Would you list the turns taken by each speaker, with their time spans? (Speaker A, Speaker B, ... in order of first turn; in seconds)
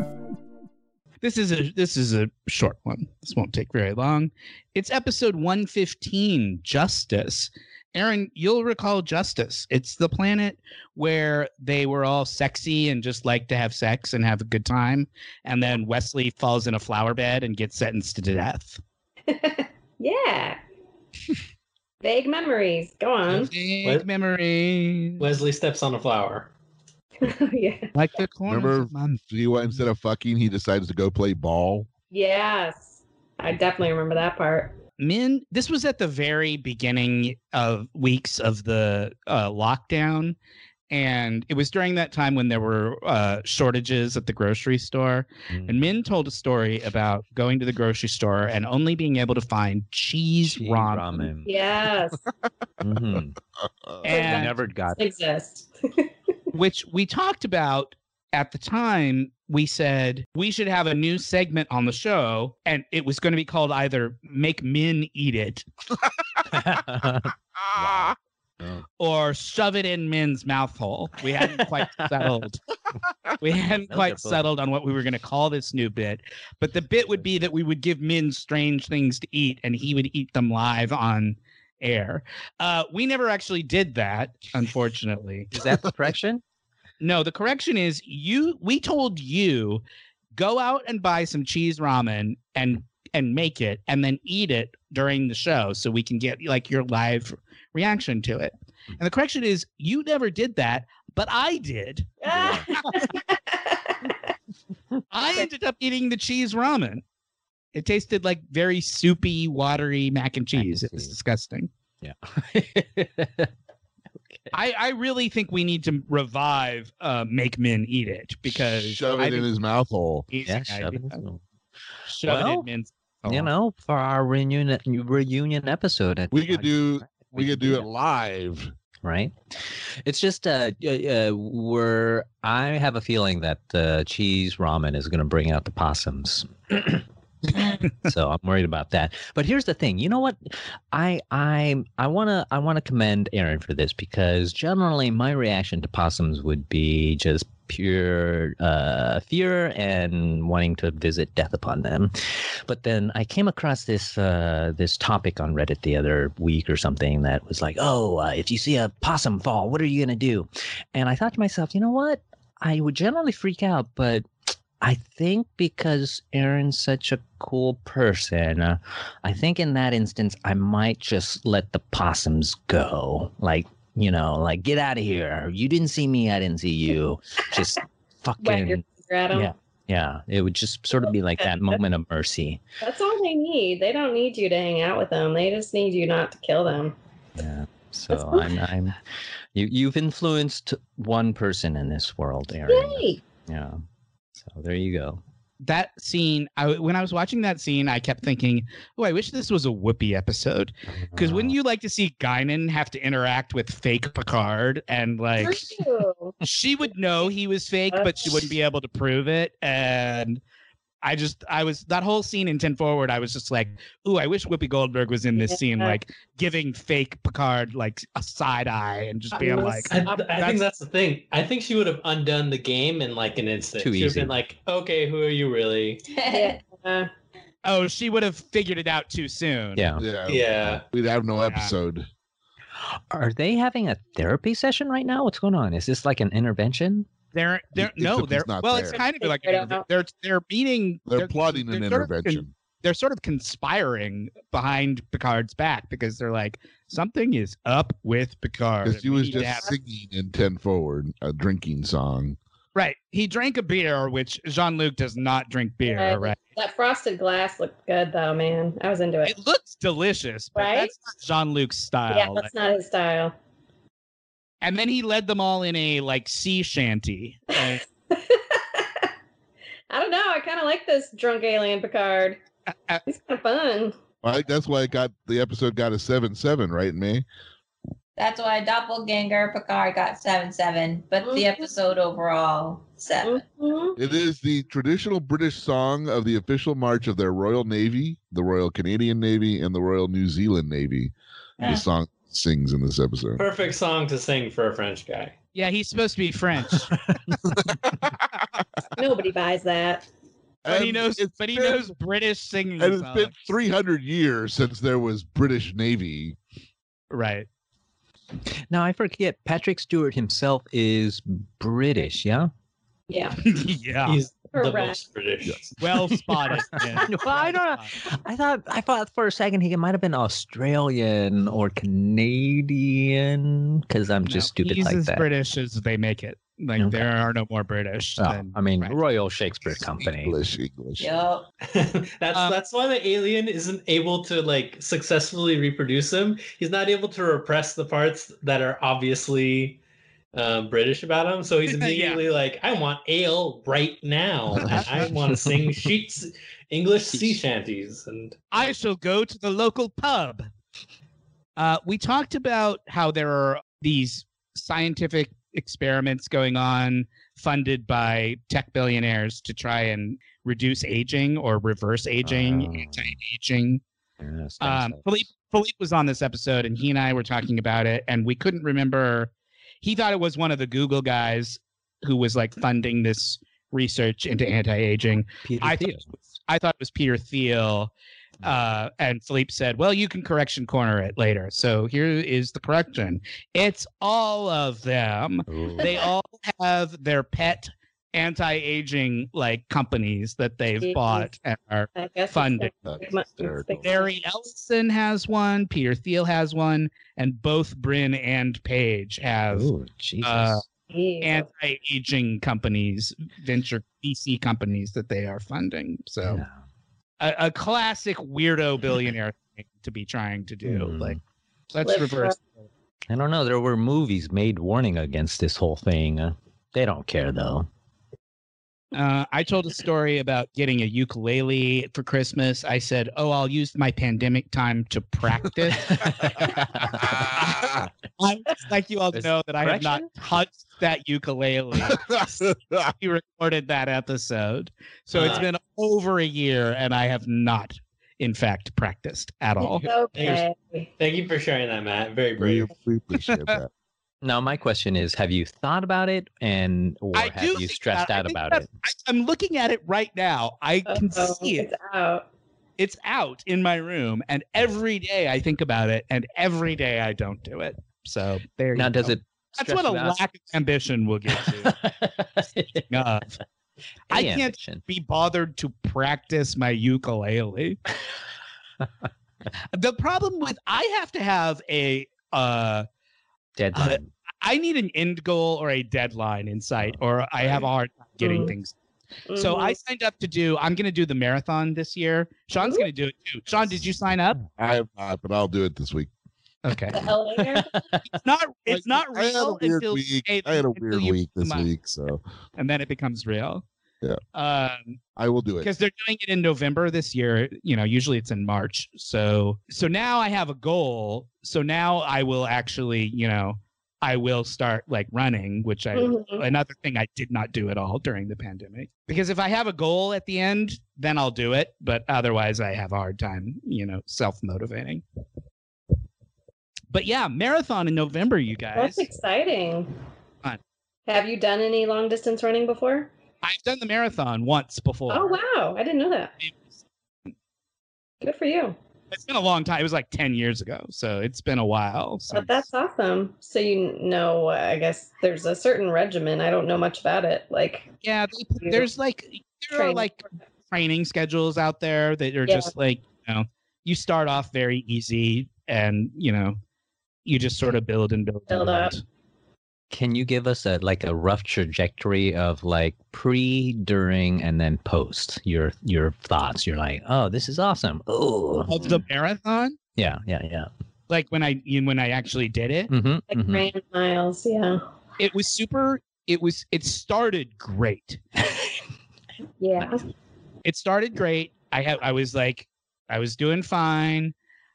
Speaker A: 1.2-18.8, 23.3-25.2, 27.9-29.8, 35.0-40.4, 40.9-51.3, 54.0-54.5, 56.5-65.7, 69.0-72.6, 73.4-85.6, 87.0-89.8, 90.3-102.2, 102.7-103.1, 105.1-107.0, 107.7-111.7, 114.5-119.5, 120.3-121.2, 122.1-123.5, 195.6-205.8, 206.4-210.4, 211.0-220.6, 227.6-229.8, 231.5-231.7, 237.3-249.7, 252.7-256.4, 259.2-262.5, 264.6-267.8, 272.7-273.0, 295.5-296.9, 300.7-303.4, 307.1-307.5, 313.4-314.2, 315.8-318.0, 324.2-329.0, 332.3-332.6, 341.7-342.2, 348.5-350.5, 351.6-363.8, 364.6-392.7, 393.8-399.7, 400.2-400.6, 401.2-406.4, 407.2-411.2, 411.7-412.7, 418.9-426.2, 427.3-432.2, 433.0-439.9, 443.2-443.6, 447.1-451.7, 452.8-461.7, 462.9-463.4, 464.1-467.8, 469.7-472.9, 473.7-478.8, 479.4-484.4, 486.6-487.1, 488.1-491.7, 492.6-493.6, 494.3-495.0, 495.6-515.0, 516.9-519.1, 523.4-525.3, 526.4-526.7, 529.1-532.7, 538.0-546.6, 547.2-549.0, 558.7-559.8, 561.1-562.9, 565.2-568.2, 570.6-574.3
Speaker B: 19.3-20.6, 22.0-23.5, 27.2-27.9, 32.1-34.8, 51.4-52.2, 54.1-56.1, 102.2-104.2, 178.4-179.5, 181.4-181.8, 182.8-186.9, 188.1-188.5, 192.7-193.2, 205.4-206.3, 207.9-208.4, 215.3-216.0, 219.3-220.3, 226.3-227.1, 238.9-239.8, 249.3-249.7, 255.8-259.4, 260.5-260.9, 262.1-263.3, 267.5-269.1, 269.9-272.4, 273.1-273.9, 281.2-281.6, 283.2-284.0, 298.9-300.1, 313.1-313.4, 314.5-315.0, 390.8-391.3, 391.9-394.1, 400.9-401.5, 411.8-412.4, 439.6-440.9, 450.9-452.2, 478.2-478.5, 479.3-479.8, 482.6-482.9, 486.9-487.7, 505.9-506.4, 518.7-519.9, 521.1-523.1, 525.1-526.3, 528.2-528.8, 532.3-537.9, 538.6-538.9, 539.7-540.1, 542.5-542.7, 548.5-548.9, 563.3-564.8, 569.6-570.0
Speaker C: 25.2-26.5, 219.9-226.0, 230.3-230.8, 293.4-295.3, 314.0-315.7, 331.6-339.8, 340.3-348.5, 435.1-435.5, 440.1-440.4, 441.0-442.7
Speaker D: 28.5-31.9, 53.9-54.1, 118.5-120.3, 126.3-128.7, 230.0-232.1, 237.8-239.0, 241.1-242.5, 248.8-252.4, 274.2-277.2, 284.0-293.4, 300.6-301.9, 302.8-306.4, 329.8-331.1, 392.8-393.9, 426.4-427.9, 431.9-432.9, 442.4-443.7, 484.6-486.1, 488.7-492.2, 495.1-495.7
Speaker E: 45.5-45.8, 50.5-51.6, 52.8-53.4, 54.1-55.0, 66.4-68.8, 71.5-72.3, 73.7-74.4, 85.5-86.4, 102.3-102.7, 110.6-111.1, 112.0-113.5, 120.5-121.4, 122.2-122.7, 123.2-127.8, 129.0-137.0, 137.5-164.2, 164.8-182.6, 187.4-189.0, 189.5-193.8, 194.3-195.2, 200.9-201.6, 223.8-224.3, 229.8-230.0, 233.1-237.1, 308.7-312.5, 316.3-325.2, 326.8-327.1, 328.2-330.3, 345.3-345.7, 347.1-347.4, 362.2-363.2, 364.2-365.2, 375.4-376.1, 385.5-385.9, 399.5-400.6, 406.2-406.6, 410.6-411.2, 413.1-417.7, 425.9-427.3, 429.1-430.1, 444.2-448.7, 458.7-460.2, 461.3-463.1, 464.1-464.8, 473.6-474.1, 483.7-484.5, 486.9-488.0, 549.9-559.0, 560.0-560.7, 562.9-563.7
Speaker F: 226.1-226.6, 278.2-283.4, 331.0-331.5